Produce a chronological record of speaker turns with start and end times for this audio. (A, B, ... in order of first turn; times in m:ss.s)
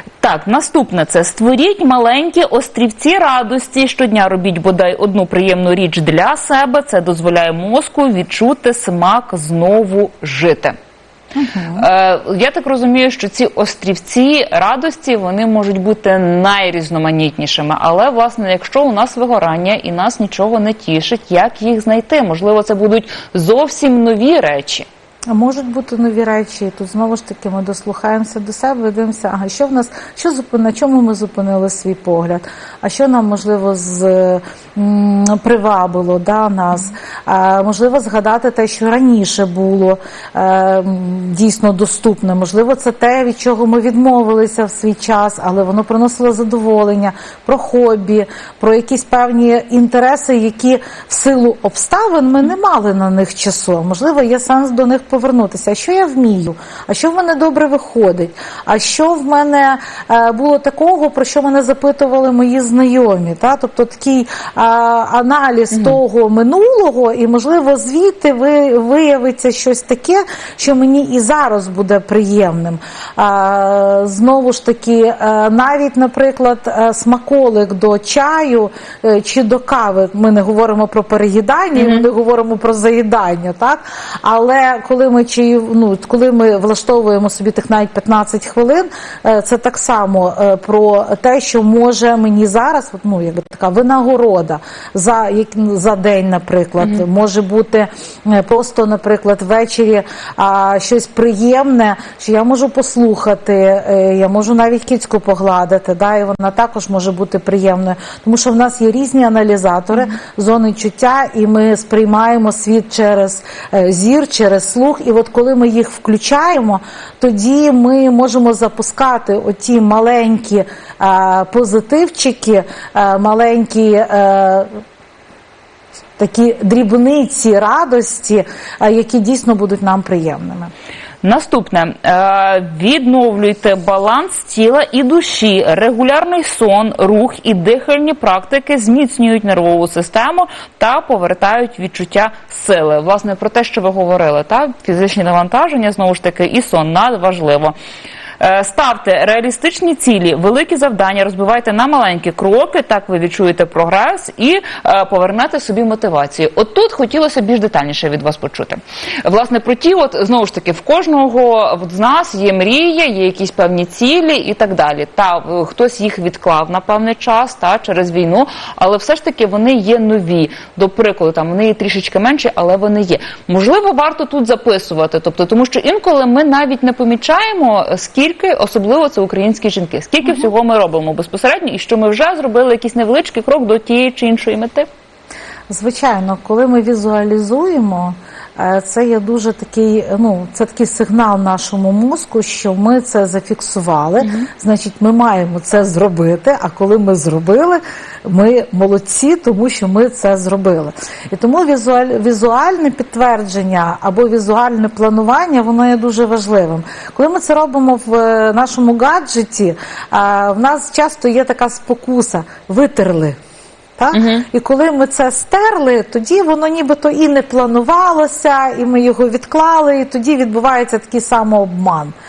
0:00.2-0:10.8 A
0:11.4-0:11.9 B
0:11.8-0:24.9 A
0:25.3-2:04.7 B
1:21.8-1:22.1 A
2:06.2-2:10.7 B
2:11.2-2:27.7 A
2:28.4-3:04.9 A
3:05.7-3:33.4 B
3:34.0-3:42.1 B
3:34.1-3:34.4 A